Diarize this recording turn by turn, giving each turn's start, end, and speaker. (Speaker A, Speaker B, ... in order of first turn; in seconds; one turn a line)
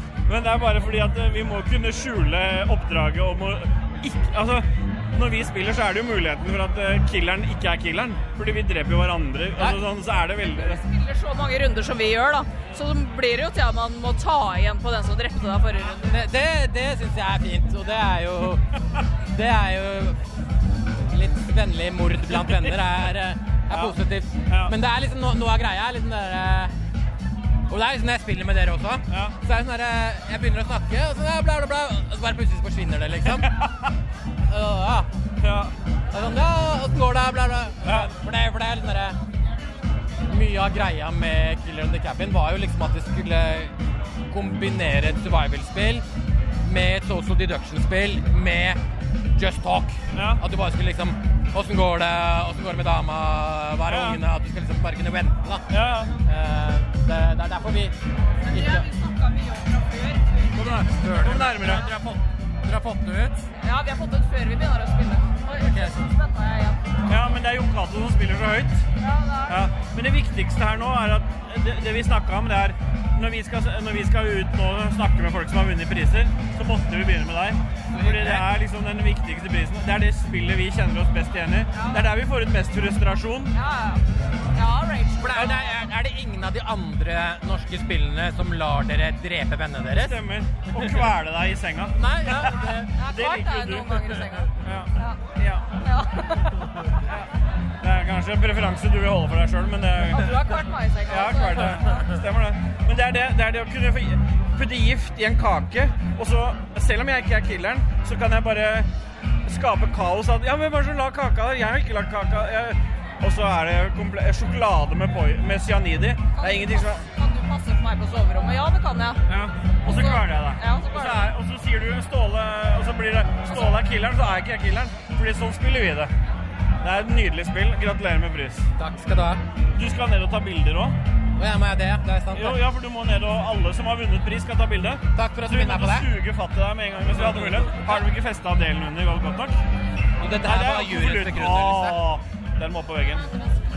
Speaker A: 0.3-10.8
Speaker B: 10.4-16.2
Speaker C: 15.9-18.6
Speaker C: 19.3-20.2
Speaker C: 21.1-26.7
Speaker A: 22.3-22.8
Speaker A: 23.7-24.7
Speaker C: 27.7-33.5
Speaker A: 29.1-29.4
Speaker A: 33.3-33.7
Speaker C: 34.5-35.1
Speaker A: 35.4-35.7
Speaker C: 36.1-39.1
Speaker A: 37.8-38.1
Speaker C: 40.3-43.7
Speaker C: 44.3-46.0
Speaker C: 46.6-48.8
Speaker C: 49.4-55.6
Speaker A: 50.1-50.4
Speaker A: 53.9-54.2
Speaker A: 55.7-56.1
Speaker C: 56.2-57.9
Speaker B: 58.4-60.5
Speaker C: 58.5-58.9
Speaker A: 60.5-61.9
Speaker C: 61.0-63.5
Speaker B: 63.6-67.0
Speaker C: 65.6-66.0
Speaker A: 67.1-68.8
Speaker B: 69.0-69.6
Speaker A: 69.5-83.5
Speaker C: 77.9-78.5
Speaker B: 81.7-82.1
Speaker B: 83.5-84.0
Speaker B: 84.5-85.7
Speaker C: 85.2-90.2
Speaker A: 90.0-95.8
Speaker C: 92.0-92.9
Speaker B: 92.9-95.2
Speaker B: 95.8-96.6
Speaker A: 97.0-97.3
Speaker A: 97.8-108.9
Speaker B: 100.0-102.1
Speaker A: 109.4-117.0
Speaker B: 116.3-119.2
Speaker A: 119.3-126.1
Speaker B: 119.8-121.3
Speaker B: 123.4-123.8
Speaker A: 126.8-128.7
Speaker C: 128.8-129.4
Speaker A: 129.7-131.0
Speaker C: 131.4-132.6
Speaker A: 132.3-139.6
Speaker C: 135.1-136.1
Speaker C: 137.2-137.8
Speaker C: 140.2-142.0
Speaker A: 140.4-143.3